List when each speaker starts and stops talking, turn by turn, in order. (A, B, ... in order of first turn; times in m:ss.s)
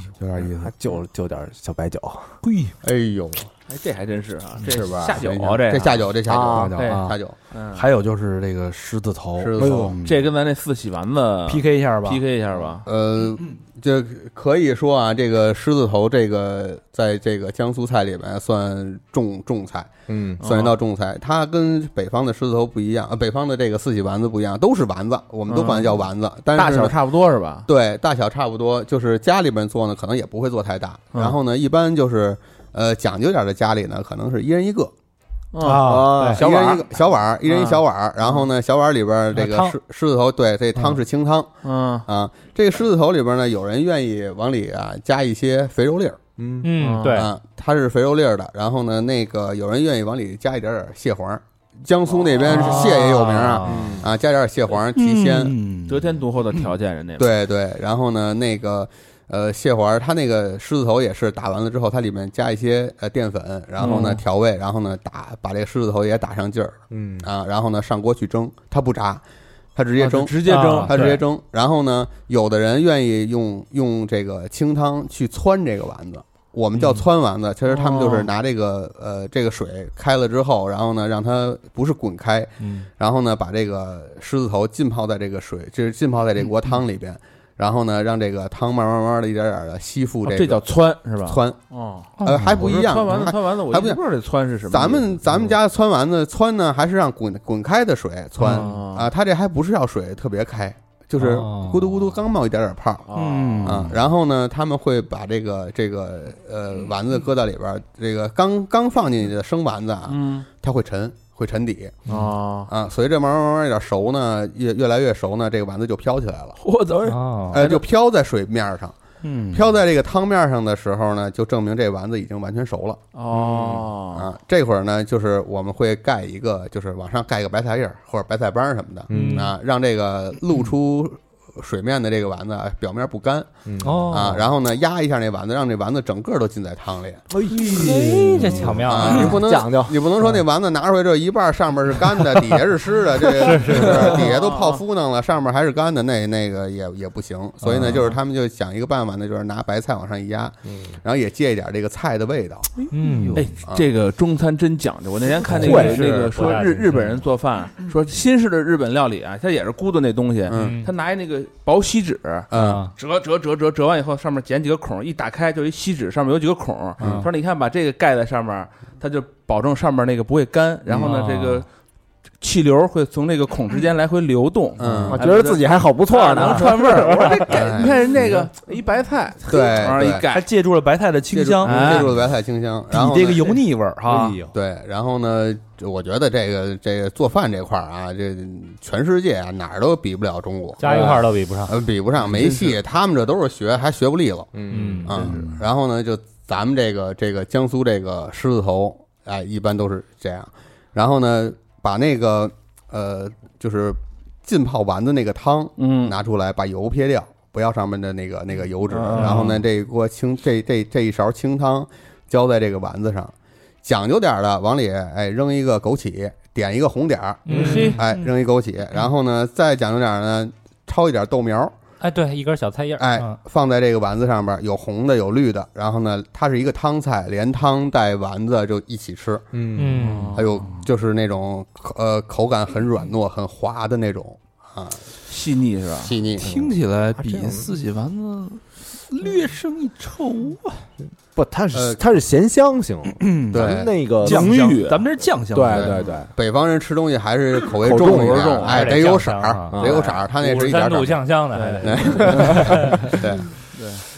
0:00.2-0:00.7 A
0:00.6-0:02.4 B
0:02.4-0:02.8 A
0:02.8-0:03.5 C
0:03.7-0:06.1 D
0:04.7-0:07.4 C
0:04.7-0:05.1 B
0:06.2-0:06.8 B
0:06.5-0:07.2 A
0:06.8-0:07.8 D
0:07.7-0:10.3 A
0:09.4-0:10.0 C
0:09.6-0:09.9 B
0:10.0-0:12.9 D
0:11.5-0:12.2 A
0:12.8-0:27.0 C
0:20.1-0:20.4 B
0:20.4-0:20.8 D
0:25.5-0:26.0 D
0:26.5-0:27.7 D
0:27.7-0:34.9 C
0:35.5-0:38.5 D
0:35.6-0:36.2 A
0:35.8-0:36.5 B
0:36.0-0:36.4 E
0:36.3-0:41.5 C
0:39.3-0:39.8 E
0:41.6-0:42.1 D
0:42.1-0:46.2 C
0:46.4-0:46.7 B
0:46.6-0:47.3 E
0:46.8-0:47.3 D
0:47.1-0:55.6 C
0:52.4-0:53.9 E
0:53.6-0:54.1 B
0:53.6-0:54.0 D
0:55.0-0:56.2 A
0:55.9-0:57.3 D
0:57.2-1:09.2 C
1:03.8-1:04.2 D
1:06.9-1:07.3 B
1:09.8-1:30.6 C
1:10.0-1:11.2 D
1:10.5-1:11.2 E
1:17.7-1:18.3 D
1:22.6-1:22.9 E
1:30.2-1:35.5 D
1:31.2-1:31.6 C
1:32.2-1:32.5 E
1:32.2-1:34.0 C
1:34.7-1:43.1 C
1:38.4-1:39.1 D
1:41.2-1:41.8 E
1:43.1-1:43.9 D
1:43.1-1:44.0 A
1:43.6-1:52.0 C
1:50.1-1:50.5 D
1:52.1-1:52.7 D
1:52.7-1:56.6 C
1:56.6-1:57.8 D
1:57.0-1:57.6 E
1:57.5-1:59.0 C
1:59.2-1:59.7 A
1:59.5-2:03.0 C
2:03.1-2:04.3 D
2:03.4-2:03.9 B
2:04.1-2:13.5 C
2:09.1-2:09.5 B
2:09.1-2:09.5 E
2:13.7-2:14.4 B
2:13.8-2:14.4 E
2:14.1-2:17.2 C
2:17.3-2:20.2 B
2:17.5-2:19.4 E
2:18.8-2:32.7 C
2:23.4-2:24.3 E
2:23.5-2:23.8 B
2:24.0-2:24.8 D
2:27.7-2:28.0 E
2:30.7-2:30.9 B
2:32.8-2:51.7 D
2:32.9-2:33.6 E
2:33.1-2:33.4 A
2:35.5-2:36.1 B
2:35.5-2:37.0 E
2:40.5-2:40.8 C
2:40.5-2:40.9 E
2:42.5-2:42.8 C
2:42.5-2:42.9 E
2:47.0-2:47.3 E
2:47.0-2:47.3 C
2:50.9-2:51.2 C
2:52.4-3:00.5 D
2:54.8-2:55.2 C
2:55.1-2:57.9 B
2:57.5-2:58.4 C
2:59.5-3:00.3 C
3:00.3-3:02.1 A
3:01.3-3:03.6 C
3:01.6-3:02.2 D
3:02.9-3:04.4 A
3:04.5-3:33.3 C
3:10.8-3:11.8 E
3:10.9-3:11.2 A
3:12.2-3:12.8 D
3:14.5-3:15.1 B
3:14.7-3:15.2 E
3:15.1-3:15.6 A
3:25.8-3:26.2 D
3:28.9-3:29.6 D
3:29.2-3:29.4 E
3:33.8-3:41.8 C
3:37.5-3:38.1 E
3:37.5-3:38.0 D
3:42.0-3:43.4 E
3:43.0-3:49.5 C
3:49.5-3:50.2 B
3:49.8-3:50.4 E
3:50.0-3:50.5 D
3:50.3-3:55.0 C
3:55.3-3:56.1 D
3:56.0-3:56.5 C
3:56.4-3:57.7 B
3:56.4-4:00.8 A
4:01.4-4:04.6 B
4:01.7-4:02.0 C
4:03.1-4:06.0 A
4:03.5-4:03.9 C
4:04.2-4:05.0 D
4:05.5-4:06.3 B
4:05.7-4:11.2 C
4:07.8-4:08.4 B
4:07.8-4:09.0 D
4:08.6-4:13.2 E
4:09.7-4:10.1 B
4:11.5-4:12.6 D
4:11.8-4:13.5 C
4:12.4-4:12.8 A
4:13.7-4:14.0 D